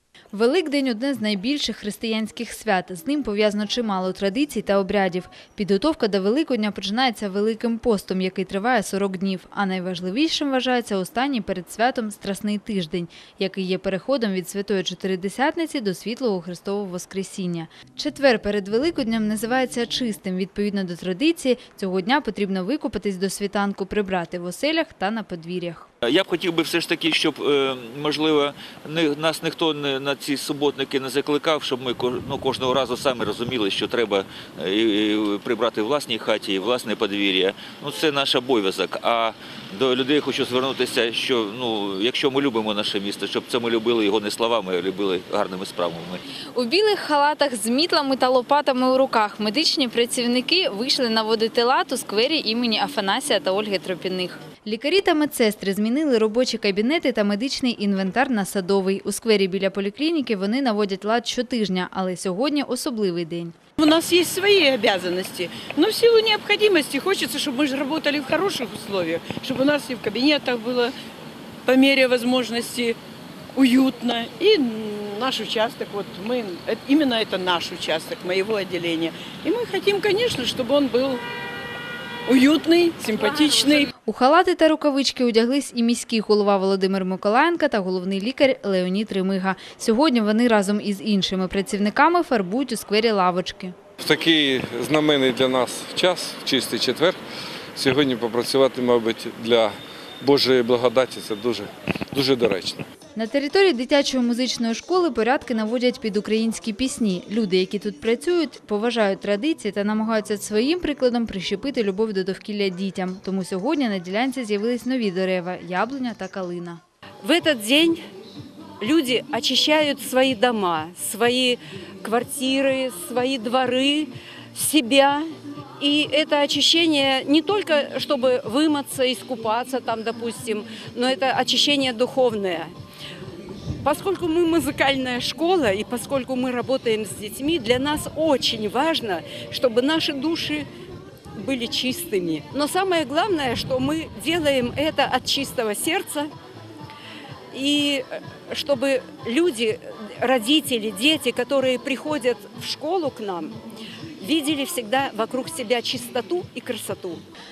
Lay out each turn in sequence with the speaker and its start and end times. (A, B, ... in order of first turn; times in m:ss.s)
0:00.3-0:25.9 A
0:26.0-0:46.2 B
0:46.5-1:03.5 A
1:03.8-1:10.9 C
1:11.6-1:13.0 C
1:13.6-1:21.2 C
1:22.3-1:23.9 C
1:24.0-1:33.7 A
1:34.0-1:37.2 D
1:37.8-1:42.8 D
1:43.2-1:56.8 A
1:57.2-1:58.0 E
1:58.8-2:05.2 E
2:05.8-2:12.7 E
2:13.8-2:20.6 E
2:21.4-2:26.3 E
2:27.5-2:33.5 E
2:34.2-2:37.2 E